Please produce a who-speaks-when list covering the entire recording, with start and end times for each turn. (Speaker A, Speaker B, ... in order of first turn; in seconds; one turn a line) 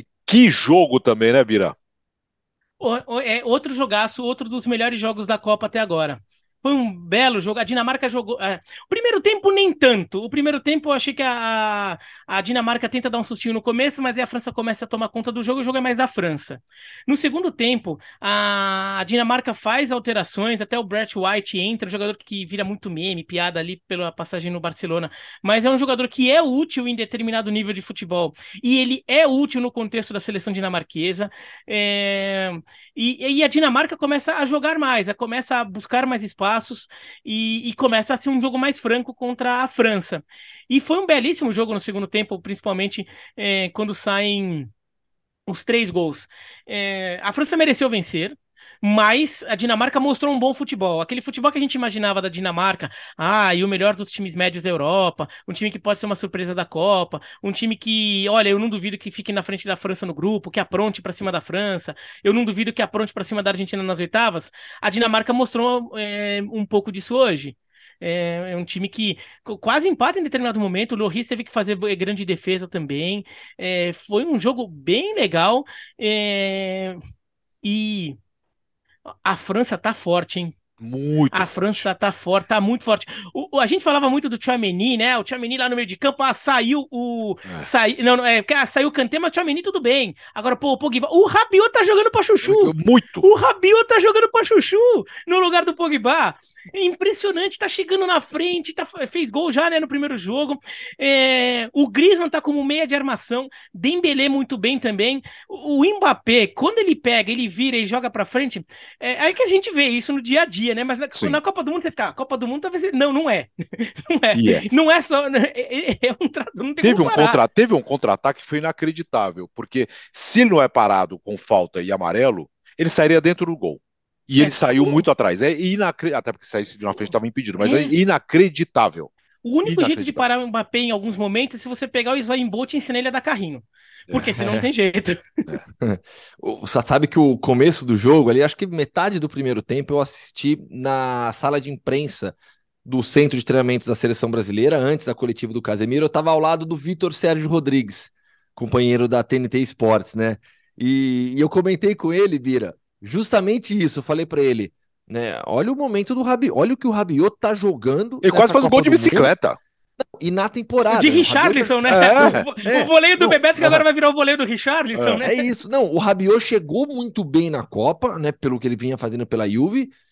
Speaker A: 0.2-1.8
Speaker B: 2.8-44.7
Speaker B: 45.5-77.0
Speaker B: 77.6-78.2
Speaker B: 79.1-80.5
Speaker A: 80.8-81.9
Speaker B: 81.3-117.4
Speaker A: 87.4-87.7
Speaker A: 92.4-93.2
Speaker A: 111.1-111.4
Speaker A: 114.3-114.6
Speaker A: 116.8-129.1
Speaker B: 124.4-125.0
Speaker B: 127.6-128.0
Speaker B: 129.4-135.3
Speaker A: 129.6-130.2
Speaker A: 134.1-134.4
Speaker C: 134.4-134.7
Speaker C: 135.8-159.3
Speaker A: 158.2-159.6
Speaker C: 160.2-163.8
Speaker B: 160.9-165.5
Speaker A: 161.9-162.5
Speaker A: 164.9-165.2
Speaker C: 165.2-169.9